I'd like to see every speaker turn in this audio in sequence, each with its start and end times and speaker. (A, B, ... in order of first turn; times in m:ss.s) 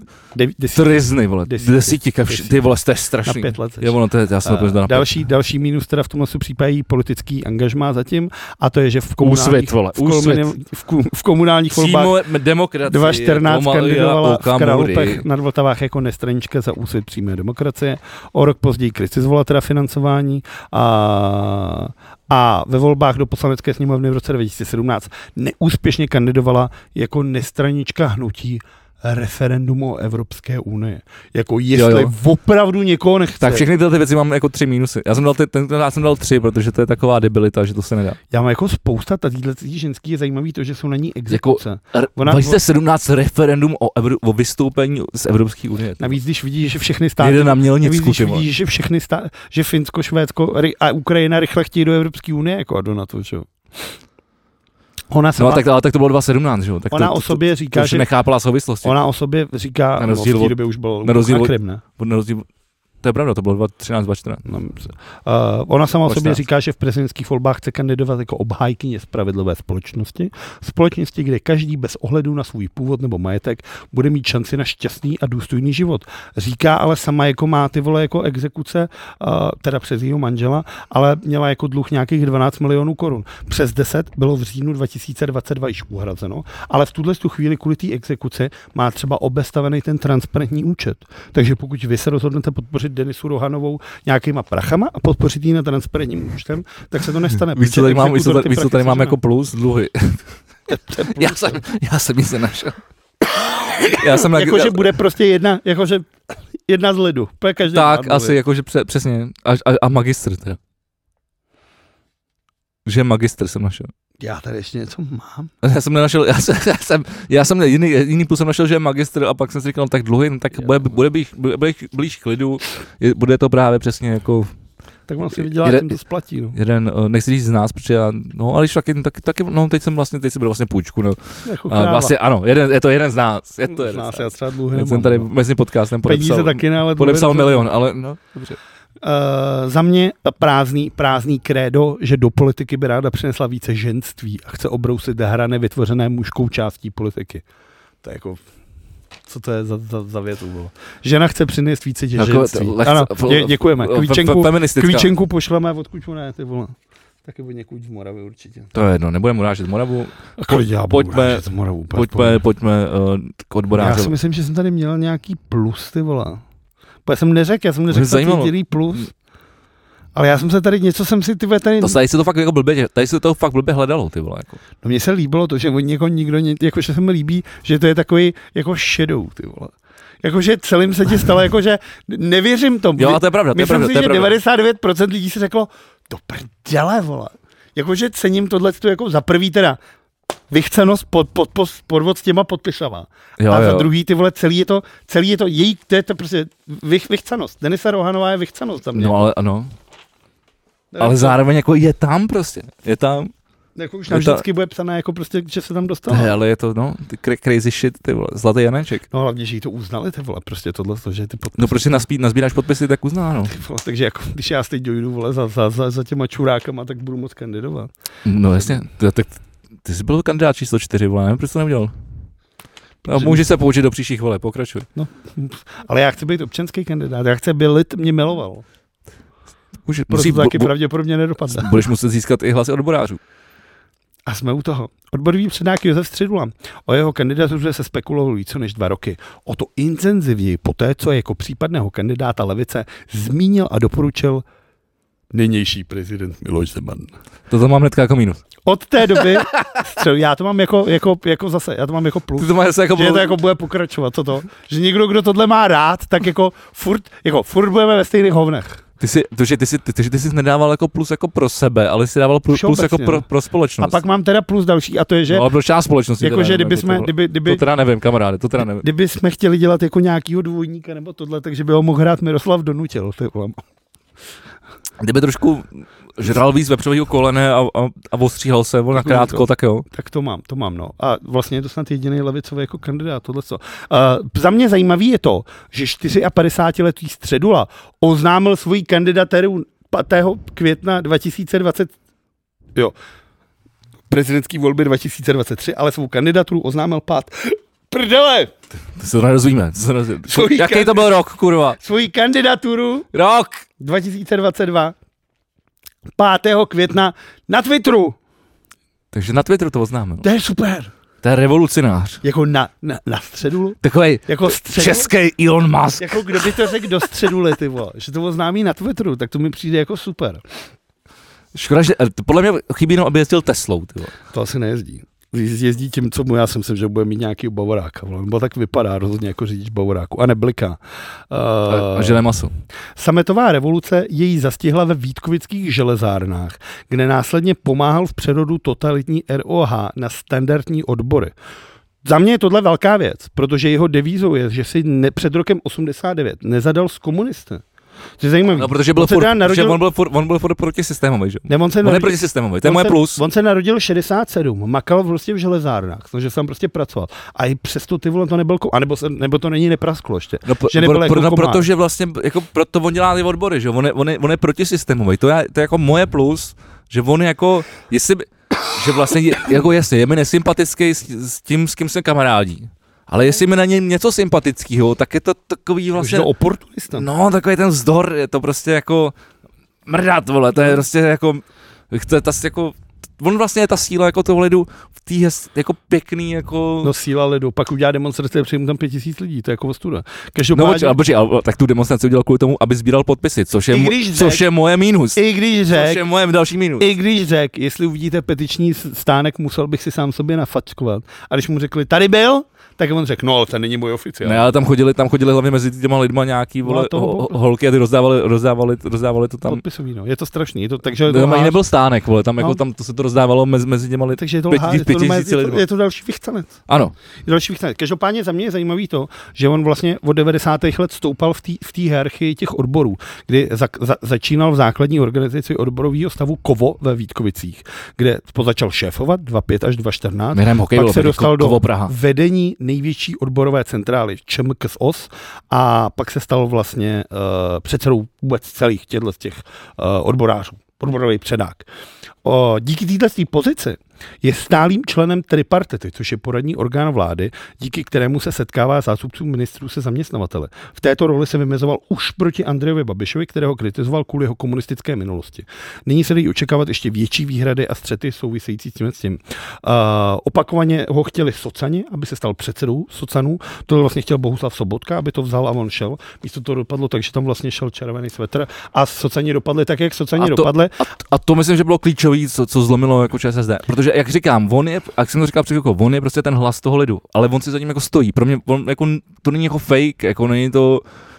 0:00.3-0:02.6 A
0:00.7-0:05.1 B
0:03.2-0:12.2 A
0:09.2-0:10.5 B
0:11.7-0:15.2 B
0:12.8-0:33.6 A
0:31.7-0:32.1 B
0:33.4-0:38.2 B
0:38.3-0:42.6 A
0:41.3-0:46.2 B
0:46.0-0:53.9 A
0:47.2-0:48.4 B
0:55.1-0:55.6 A
0:55.4-0:58.9 B
0:56.9-0:58.1 A
0:58.8-1:01.8 A
1:00.0-1:02.5 B
1:03.0-1:04.4 B
1:04.4-1:39.2 A
1:06.1-1:06.4 B
1:37.4-1:40.2 B
1:40.7-1:41.6 A
1:40.9-1:42.8 B
1:43.3-1:46.1 A
1:43.9-1:44.9 B
1:46.6-1:48.4 A
1:47.7-1:50.6 B
1:52.8-1:53.9 B
1:54.2-1:55.5 A
1:55.6-2:04.5 B
2:05.1-2:06.6 A
2:05.4-2:06.0 B
2:06.5-2:18.6 B
2:11.4-2:12.1 A
2:13.7-2:15.3 A
2:16.0-2:17.7 A
2:19.0-2:27.4 A
2:28.0-2:28.4 A
2:29.3-2:38.7 A
2:32.2-2:35.1 B
2:38.7-2:44.1 B
2:40.4-2:42.4 A
2:43.7-2:46.4 A
2:47.0-2:49.1 A
2:47.9-2:48.5 B
2:50.1-2:52.0 A
2:51.8-2:54.6 B
2:54.8-3:09.8 A
3:03.0-3:04.3 B
3:10.5-3:19.2 A
3:13.4-3:13.9 B
3:18.9-3:19.7 B
3:20.9-3:21.4 A
3:21.0-3:23.3 B
3:23.8-3:26.3 A
3:24.1-3:24.4 B
3:26.1-3:29.0 B
3:29.1-3:32.0 A
3:31.6-3:33.5 B
3:33.5-3:37.9 A
3:38.2-3:41.9 B
3:43.0-3:43.5 A
3:43.0-3:44.9 B
3:45.0-3:48.6 A
3:49.8-3:50.7 B
3:50.1-3:51.8 A
3:51.5-3:53.2 B
3:54.2-4:04.4 A
4:05.3-4:07.1 A
4:07.5-4:08.4 B
4:08.6-4:18.8 A
4:12.4-4:13.4 B
4:19.0-4:24.0 B
4:22.5-4:23.2 A
4:23.8-4:25.5 A
4:25.3-4:28.8 B
4:26.2-4:27.6 A
4:28.7-4:33.6 A
4:35.0-4:39.8 B
4:38.9-4:51.9 A
4:54.1-4:58.5 A
4:59.0-5:01.8 B
5:00.3-5:01.2 A
5:01.8-5:03.1 A
5:03.1-5:03.6 B
5:03.8-5:04.9 A
5:06.2-5:08.2 A
5:09.1-5:10.2 B
5:10.2-5:10.9 A
5:11.2-5:12.2 B
5:12.2-5:15.1 A
5:13.8-5:16.8 B
5:16.0-5:20.4 A
5:21.5-5:24.1 B
5:24.3-5:32.2 A
5:31.7-5:32.5 B
5:33.0-5:41.3 A
5:42.0-5:47.6 A
5:48.2-5:49.8 A
5:48.6-5:53.2 B
5:51.5-6:01.6 A
6:00.4-6:16.3 B
6:16.0-6:17.0 A
6:16.9-6:19.1 B
6:19.8-6:26.9 B
6:26.8-6:31.0 A
6:30.5-6:35.2 B
6:33.7-6:34.4 A
6:35.2-6:36.0 A
6:35.7-6:36.9 B
6:36.8-6:44.5 A
6:44.2-6:49.6 B
6:46.6-6:47.4 A
6:49.4-6:51.6 A
6:51.0-6:55.6 B
6:54.1-6:56.6 A
6:56.7-6:56.9 B
6:57.2-7:21.7 A
7:10.3-7:11.9 B
7:22.2-7:50.8 A
7:50.2-8:00.8 B